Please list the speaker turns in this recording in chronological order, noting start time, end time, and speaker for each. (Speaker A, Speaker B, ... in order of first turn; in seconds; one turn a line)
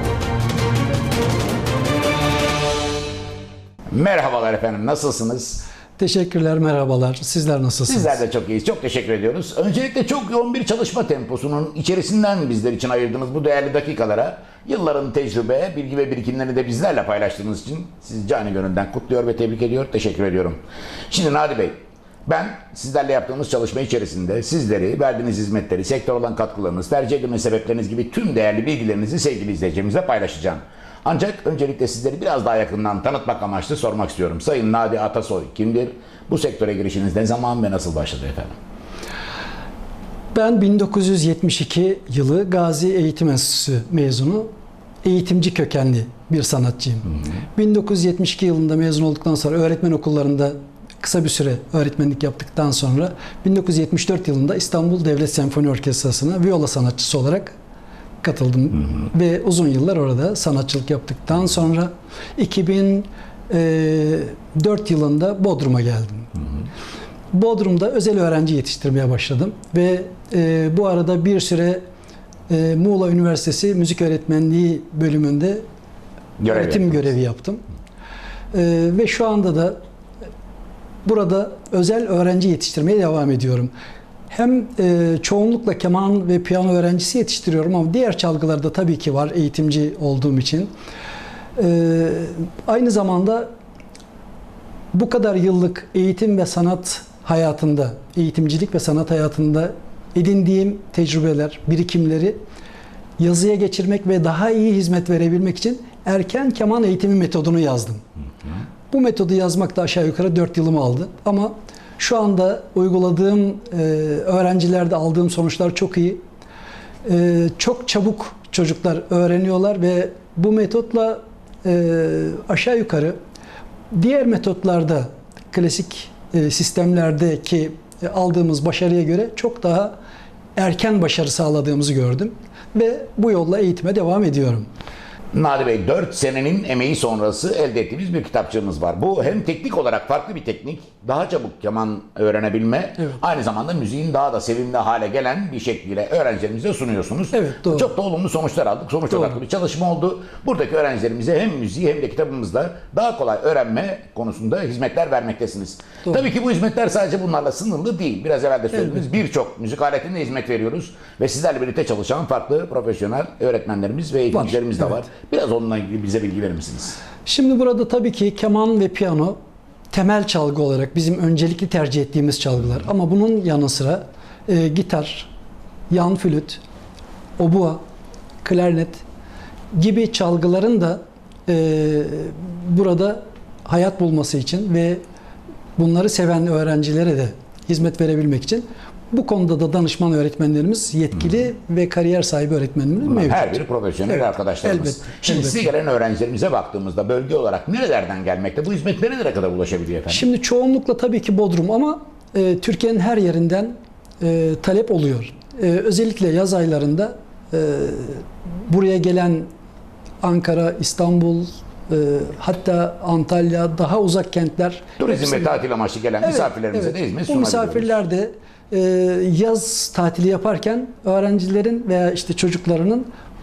Speaker A: 3.9-5.7
Speaker B: 6.0-8.2
Speaker A: 7.9-20.6
Speaker A: 21.1-21.8
Speaker A: 22.3-38.5
Speaker B: 40.3-44.5
Speaker B: 45.0-57.5
Speaker B: 58.2-66.3
Speaker B: 67.3-71.8
Speaker B: 72.5-75.6
Speaker A: 76.4-77.1
Speaker B: 76.4-77.6
Speaker B: 78.5-79.8
Speaker B: 81.0-83.7
Speaker B: 84.3-90.7
Speaker B: 91.5-93.5
Speaker B: 94.9-102.4
Speaker B: 103.2-108.0
Speaker B: 108.9-116.2
Speaker B: 117.0-123.2
Speaker B: 123.9-129.9
Speaker B: 130.6-134.7
Speaker A: 135.3-167.0
Speaker B: 147.3-147.9
Speaker B: 149.1-149.4
Speaker B: 158.7-159.1
Speaker B: 164.3-165.0
Speaker B: 167.2-169.4
Speaker B: 169.9-175.3
Speaker B: 175.9-176.6
Speaker B: 177.4-177.8
Speaker B: 178.4-179.0
Speaker B: 179.7-185.0
Speaker B: 185.8-195.7
Speaker A: 193.1-200.2
Speaker B: 200.1-209.5
Speaker B: 210.2-215.4
Speaker A: 215.0-218.0
Speaker B: 216.2-223.1